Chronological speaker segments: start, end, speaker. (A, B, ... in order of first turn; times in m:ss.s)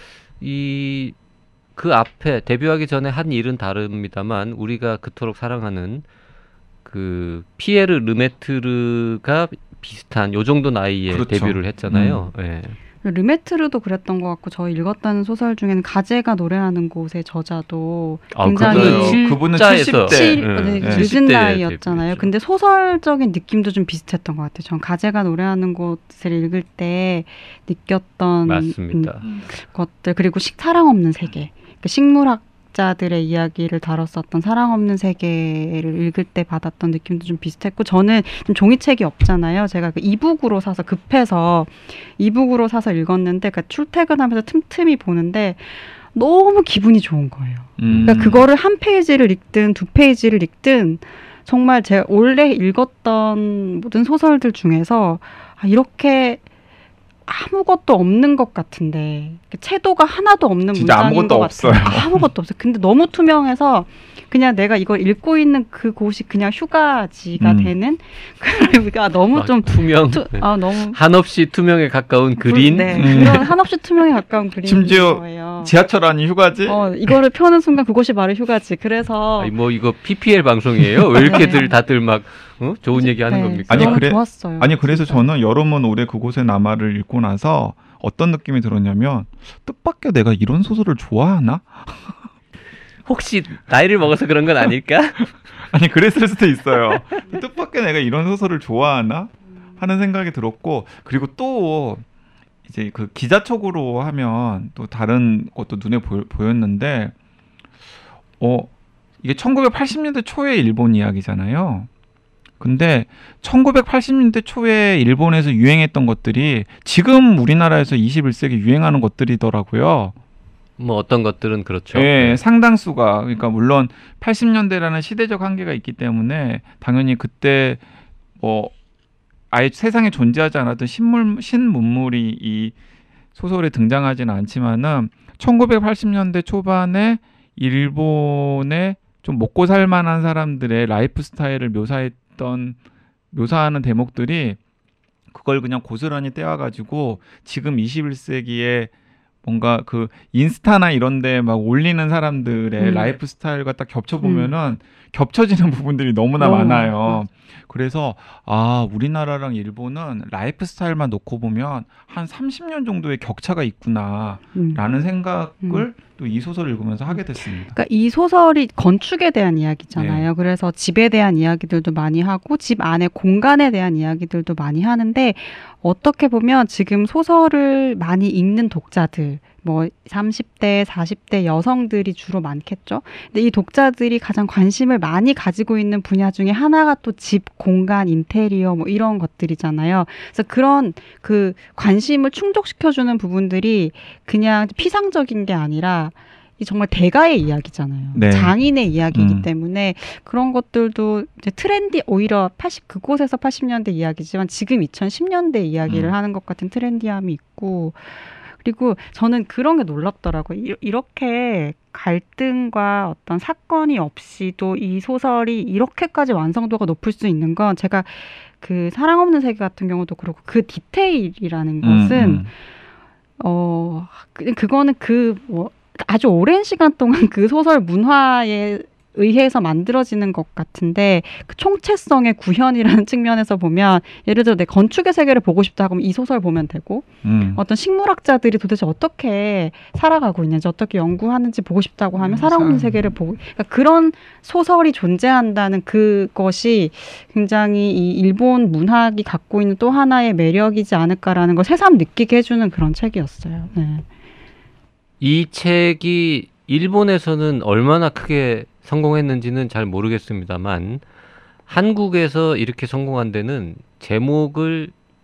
0:00.4-0:01.2 A
0:01.8-0:06.0 A
0:06.8-0:12.8 A
0:11.1-0:12.2 B
0:13.0-0:56.4 C
0:18.4-0:22.3 A
0:18.5-0:21.1 B
0:28.5-0:29.3 A
0:47.8-0:48.5 B
0:47.9-0:48.2 A
0:57.3-1:11.0 C
1:00.8-1:02.3 B
1:07.4-1:07.7 B
1:09.3-1:13.5 A
1:12.4-1:15.7 C
1:12.9-1:13.5 B
1:14.6-1:16.9 B
1:16.7-1:19.5 C
1:19.4-1:24.1 A
1:21.2-1:21.7 C
1:22.9-1:25.3 C
1:23.7-1:32.2 B
1:33.1-1:35.3 A
1:35.7-1:42.0 B
1:42.7-1:47.1 B
1:48.4-1:48.7 B
1:49.2-1:51.9 B
1:52.6-2:00.1 B
2:00.8-2:02.4 A
2:01.9-2:07.8 B
2:08.4-2:08.7 B
2:09.5-2:12.8 B
2:13.4-2:22.8 B
2:23.3-2:24.6 B
2:25.3-2:28.9 B
2:29.4-2:47.7 B
2:32.8-2:33.2 C
2:34.2-2:34.5 C
2:36.4-2:37.2 C
2:44.5-2:44.8 C
2:47.1-3:42.5 C
2:50.0-2:50.3 B
3:18.1-3:18.6 B
3:19.1-3:19.5 B
3:25.9-3:26.1 B
3:41.8-3:42.5 B
3:43.4-4:14.0 C
3:57.2-3:57.6 B
4:02.2-4:03.1 B
4:15.2-4:21.0 A
4:21.7-4:24.9 A